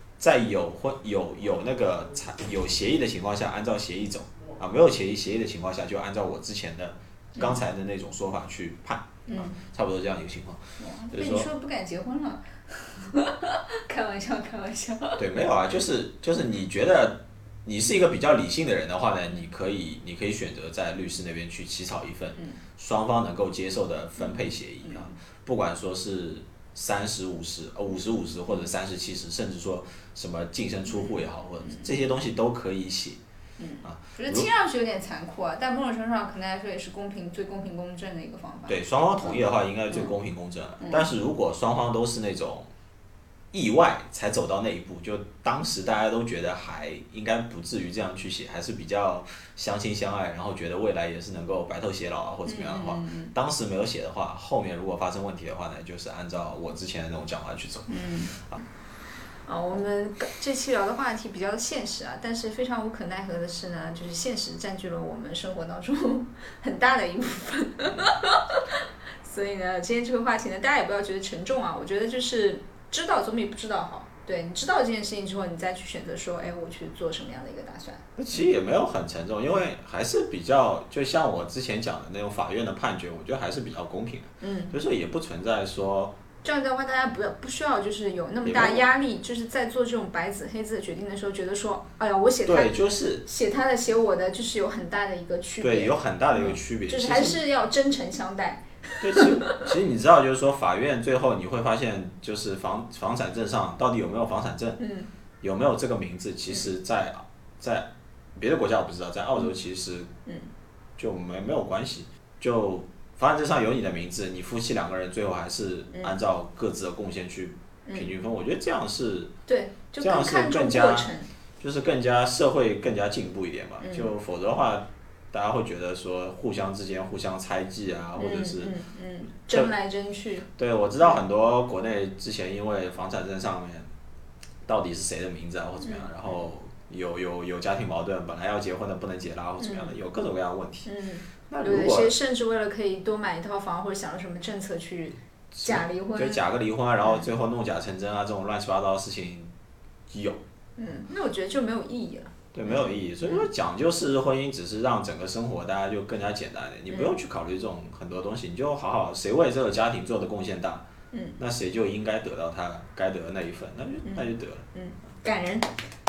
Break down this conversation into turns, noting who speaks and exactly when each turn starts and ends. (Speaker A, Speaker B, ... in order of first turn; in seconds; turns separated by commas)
Speaker A: 0.2-11.5, Speaker B: 9.3-9.6, Speaker B: 10.8-15.2, Speaker A: 15.2-33.2, Speaker B: 24.2-25.1, Speaker B: 33.6-39.4, Speaker A: 33.8-34.5, Speaker A: 38.7-42.7, Speaker B: 40.8-41.1, Speaker A: 43.5-58.6, Speaker B: 52.5-53.3, Speaker B: 57.9-58.4, Speaker B: 59.5-78.0, Speaker A: 67.8-68.1, Speaker A: 78.2-86.1, Speaker B: 84.4-84.8, Speaker B: 86.4-99.6, Speaker A: 88.5-88.9, Speaker A: 92.5-93.2, Speaker A: 95.6-97.4, Speaker A: 99.0-104.8, Speaker B: 104.8-105.1, Speaker A: 105.4-110.1, Speaker A: 111.0-119.3, Speaker B: 115.9-116.2, Speaker B: 117.8-118.1, Speaker B: 119.5-121.3, Speaker A: 120.0-128.7, Speaker B: 123.8-124.1, Speaker B: 128.2-130.5, Speaker A: 130.6-133.9, Speaker A: 134.7-140.9, Speaker B: 135.8-136.1, Speaker B: 139.6-139.9, Speaker B: 140.9-146.4, Speaker A: 141.5-142.1, Speaker A: 145.5-149.5, Speaker A: 150.1-150.4, Speaker B: 150.8-153.5, Speaker A: 152.5-160.8, Speaker B: 161.1-161.4, Speaker A: 161.4-164.7, Speaker B: 164.0-165.7